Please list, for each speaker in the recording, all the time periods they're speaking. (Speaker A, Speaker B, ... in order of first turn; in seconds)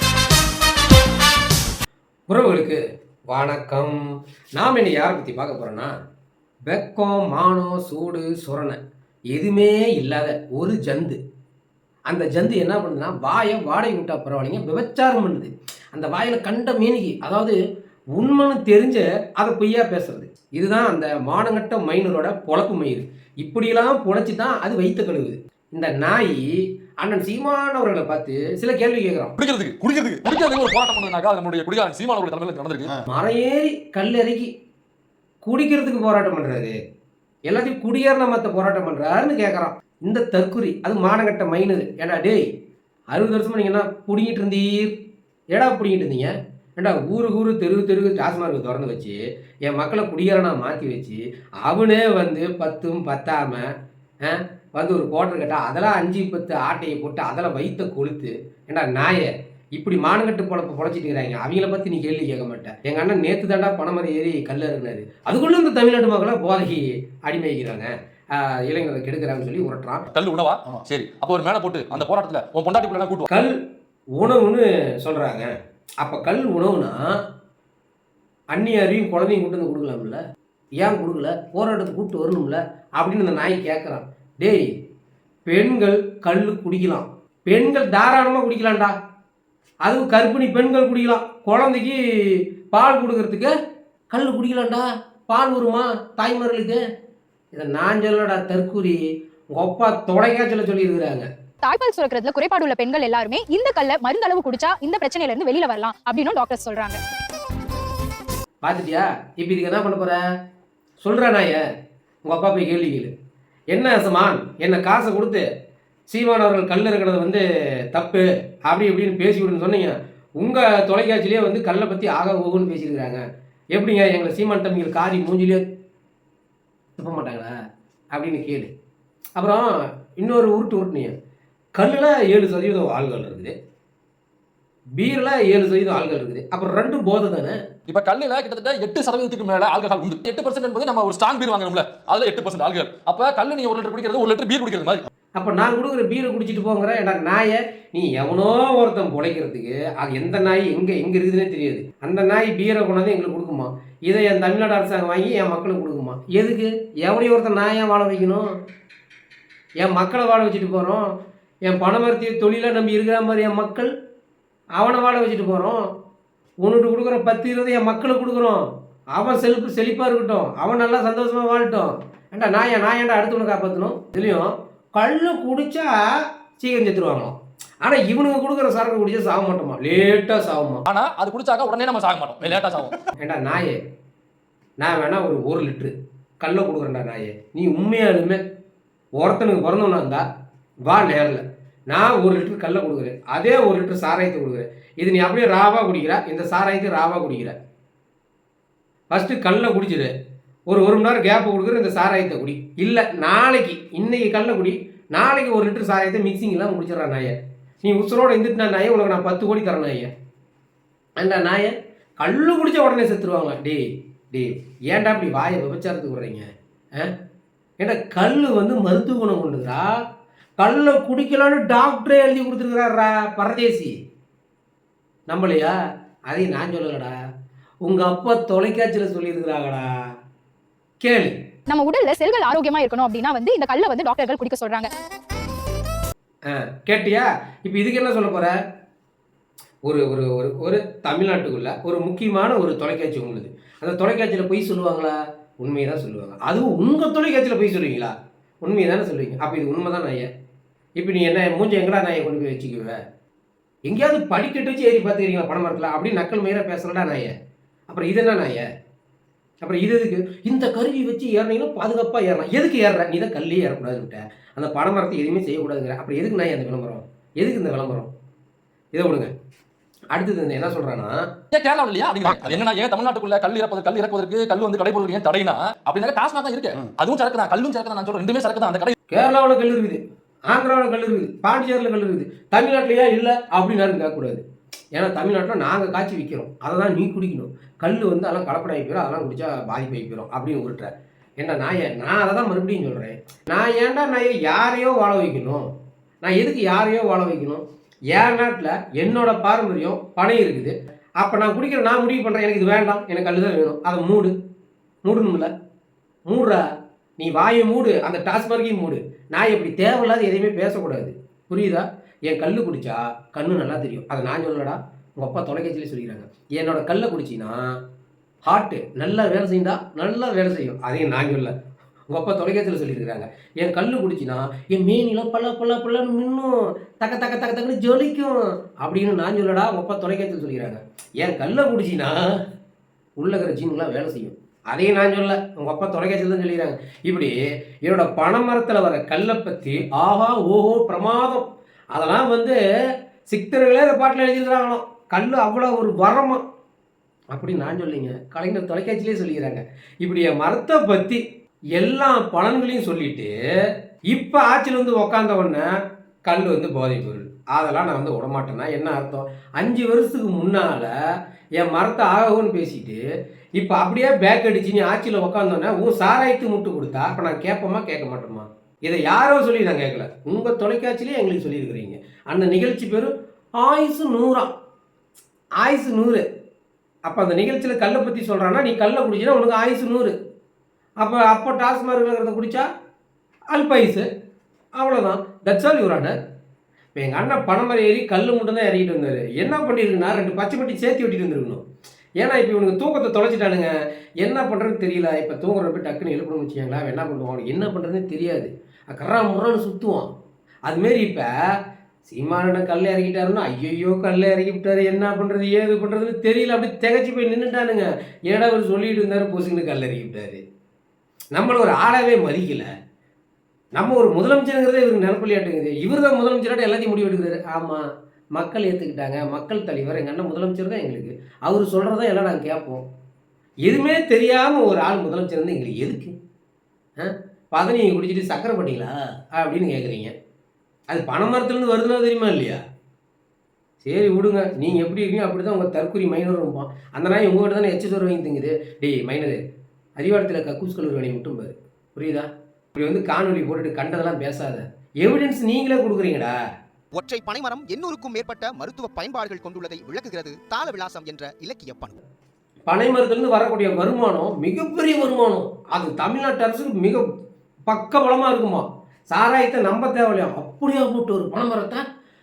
Speaker A: 2.3-2.8, 3.3-4.0, 4.5-5.9, 6.7-8.8, 9.3-11.2, 12.1-17.6, 18.1-26.4, 27.0-29.3, 33.1-34.5, 35.4-36.8, 37.5-42.4, 43.1-44.9, 45.5-53.7, 54.2-70.0, 73.3-73.5, 74.2-75.5, 76.0-77.0, 78.5-80.2, 80.8-84.7, 85.5-88.9, 89.8-93.5, 94.1-96.8, 97.5-99.0, 99.5-101.3, 108.6-110.2, 111.0-111.6, 112.2-113.1, 113.7-115.4, 116.1-123.2, 123.7-125.6, 127.0-127.5, 128.1-128.7, 129.3-131.1, 131.7-133.5, 135.0-137.6, 145.4-158.5, 159.8-161.1, 161.6-163.9, 164.8-165.9, 166.6-180.8, 183.2-183.8, 184.8-188.4, 189.2-190.2, 190.8-197.5, 199.1-200.1, 200.7-210.1, 211.2-217.1, 217.8-219.8, 220.6-223.9, 225.3-225.7, 226.3-227.1, 227.8-229.9, 231.0-231.3, 236.5-238.5, 239.8-250.2, 251.0-253.0, 253.8-257.3, 257.9-258.6, 259.6-268.1, 268.9-269.3, 270.1-271.2, 279.1-284.4, 284.9-295.6, 296.2-297.6, 298.1-304.3, 305.0-305.5, 306.3-306.6, 307.2-317.6, 318.4-321.5, 322.1-332.2, 333.2-342.6, 343.3-346.4, 347.3-351.2, 351.8-353.3, 354.1-355.7, 356.2-360.9, 361.6-363.0, 363.6-374.5, 375.6-376.2, 377.1-380.1, 381.0-382.7, 383.5-384.1, 384.8-386.1, 386.9-391.6, 392.2-400.1, 400.6-401.3, 402.0-410.4, 411.3-412.7, 413.7-417.8, 418.3-422.8, 423.6-426.1, 427.0-430.1, 430.9-432.6, 433.8-439.4, 440.0-446.3, 452.7-457.0, 457.7-461.8
Speaker B: 29.4-32.9, 70.1-73.3, 137.9-145.0, 180.9-183.0, 271.5-278.9
Speaker C: 101.6-107.0, 231.7-234.9
Speaker D: 446.9-452.0